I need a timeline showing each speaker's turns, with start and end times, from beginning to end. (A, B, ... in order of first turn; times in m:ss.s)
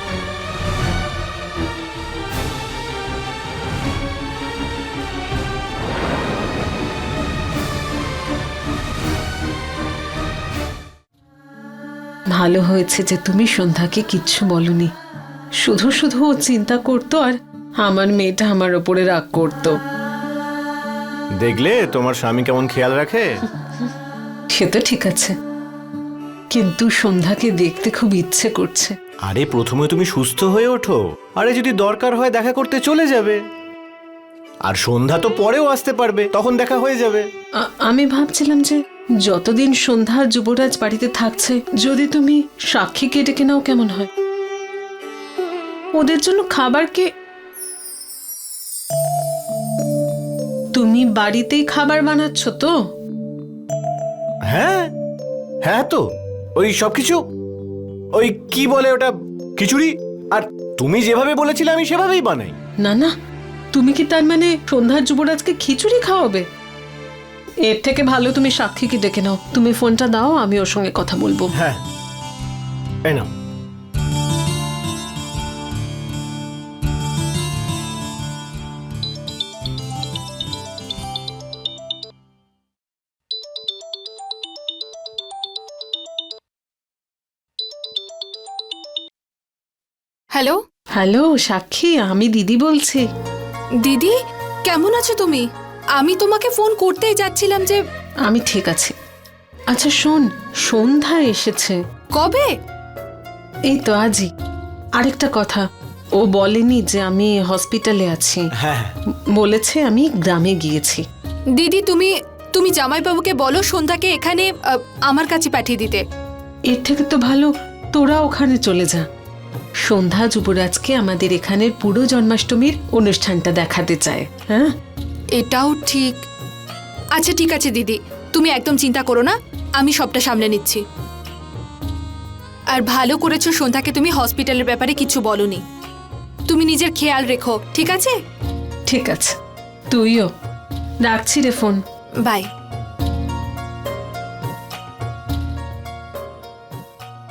0:12.3-0:14.9 A
0:15.6-0:19.8 A
0:21.4-0:23.4 B
0:24.5-0:25.3 A
0:26.5-0:28.9 A
0:29.2-0:33.4 B
0:34.6-0:37.3 B
0:37.6-0:44.1 A
0:46.0-0:47.1 A
0:50.7-0:52.8 A
0:54.5-0:54.9 B
0:55.6-0:57.2 B
0:58.1-1:02.6 B
1:02.8-1:03.1 A
1:03.7-1:06.5 A
1:07.6-1:11.5 A
1:11.5-1:11.8 B
1:31.0-1:33.0 A
1:33.8-1:35.4 C
1:36.0-1:37.8 C
1:38.3-1:38.9 A
1:39.7-1:41.8 A
1:42.2-1:42.5 C
1:43.7-1:44.3 A
1:45.0-1:45.6 A
1:46.2-1:48.5 A
1:48.6-1:48.9 B
1:49.4-1:51.0 A
1:51.5-1:56.0 C
1:56.7-1:59.0 A
1:59.8-2:04.7 A
2:05.4-2:06.2 C
2:07.2-2:10.8 C
2:12.7-2:15.6 C
2:16.5-2:18.2 C
2:18.9-2:19.4 A
2:19.9-2:20.3 A
2:21.0-2:21.8 A